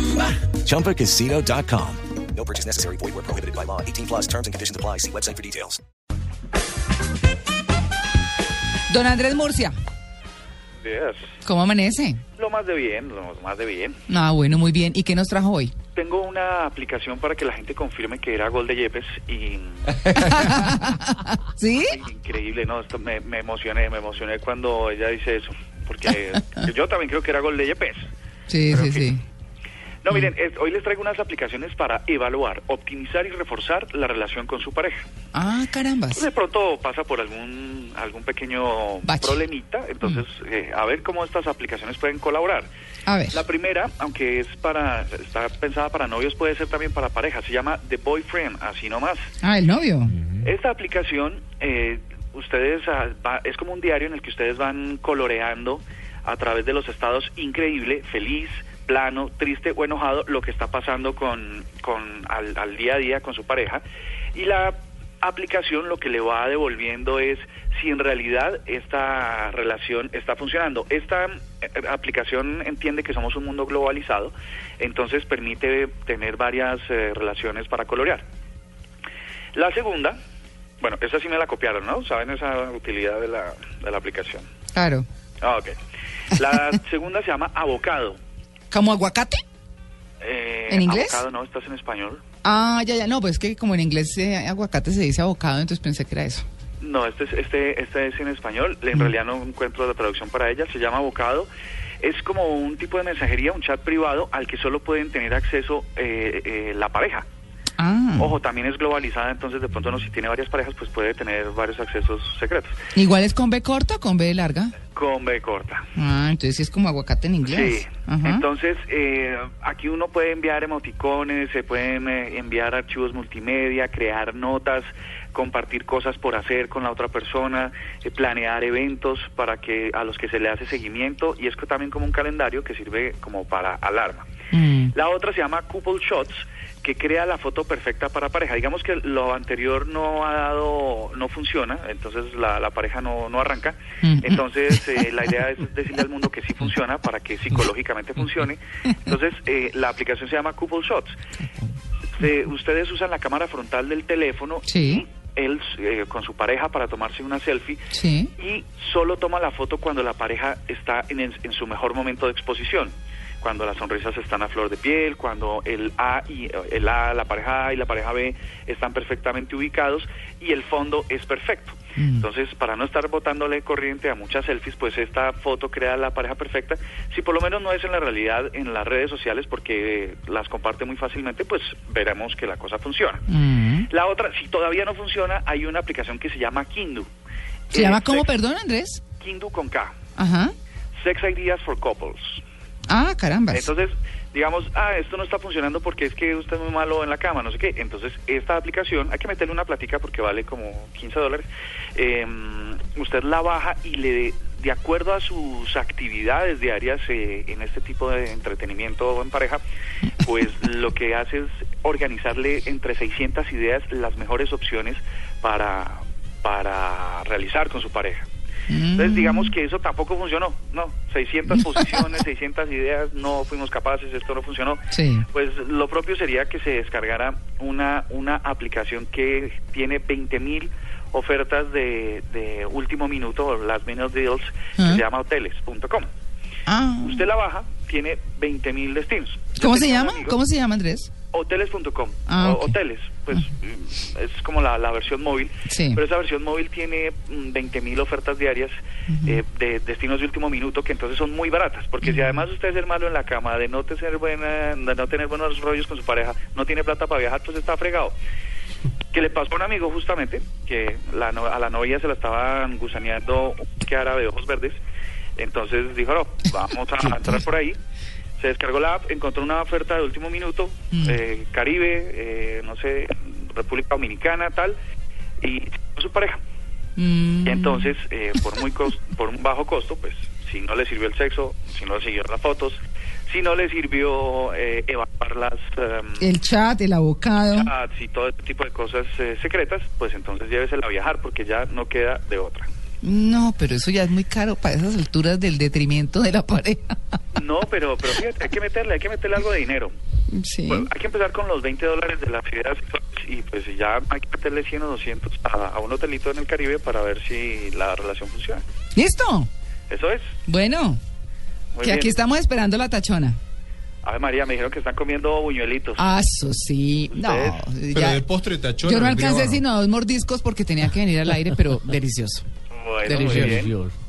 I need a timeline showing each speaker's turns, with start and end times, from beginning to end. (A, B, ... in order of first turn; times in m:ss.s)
0:00.3-0:05.8 A
0:08.9-0:09.7 B
0:10.8-0:11.4 C
0:11.4-0:12.2 B
0:12.4-0:14.0 C
0:14.1-0:15.7 B
0:16.0-0:20.2 C
0:20.1-0:22.0 B
0:21.9-0:28.1 C
0:28.5-0:29.2 B
0:28.7-0:29.1 C
0:30.0-0:35.0 C
0:35.3-0:36.3 B
0:36.2-0:42.7 C
0:39.0-0:39.4 B
0:43.1-0:43.4 B
0:43.3-0:49.3 C
0:49.4-0:50.2 B
0:50.4-1:03.8 C
1:04.3-1:18.2 C
1:19.5-1:20.2 C
1:20.8-1:24.5 C
1:24.7-1:25.1 B
1:25.4-1:25.8 C
1:26.3-1:28.2 C
1:28.7-1:29.4 B
1:30.2-1:32.2 C
1:30.7-1:31.2 B
1:32.4-1:36.5 B
1:36.8-1:41.5 C
1:42.0-1:47.3 C
1:47.8-1:48.4 B
1:48.2-1:52.8 C
1:53.0-1:54.8 B
1:54.9-1:55.9 C
1:56.0-1:58.4 B
1:57.4-2:14.3 C
2:14.5-2:14.9 B
2:14.9-2:31.2 C
2:24.0-2:24.4 B
2:32.2-2:37.8 C
2:34.7-2:35.0 B
2:37.9-2:38.3 B
2:38.4-3:03.2 C
2:52.0-2:52.3 B
3:03.3-3:03.9 B
3:03.9-3:07.1 C
3:07.7-3:08.3 C
3:07.7-3:09.0 B
3:09.2-3:10.0 C
3:10.2-3:10.5 B
3:11.0-3:12.4 C
3:12.9-3:13.7 B
3:13.5-3:29.6 C
3:30.2-3:38.3 C
3:38.7-3:39.5 B
3:38.9-3:56.1 C
3:44.9-3:45.3 B
3:56.7-3:57.2 B
3:57.0-4:00.4 C
3:59.6-4:01.1 B
4:01.3-4:18.2 C
4:02.3-4:02.8 B
4:05.7-4:06.0 B
4:09.1-4:09.4 B
4:12.0-4:12.4 B
4:19.1-4:24.8 C
4:25.4-4:27.8 C
4:28.4-4:34.8 C
4:35.4-4:36.4 C
4:37.0-4:37.9 B
4:37.4-4:46.3 C
4:46.2-4:47.7 B
4:47.5-4:52.7 C
4:53.0-4:57.0 B
4:57.4-5:00.0 C
5:00.3-5:00.9 B
5:00.7-5:08.6 C
5:09.0-5:09.5 B
5:09.9-5:10.3 C
5:10.5-5:11.0 B
5:11.8-5:12.2 C
5:11.8-5:13.4 B
5:14.0-5:16.0 C
5:16.0-5:18.2 B
5:17.1-5:17.6 C
5:17.9-5:19.6 D
5:18.8-5:22.4 B
5:22.7-5:23.8 C
5:23.0-5:23.6 B
5:23.2-5:23.9 D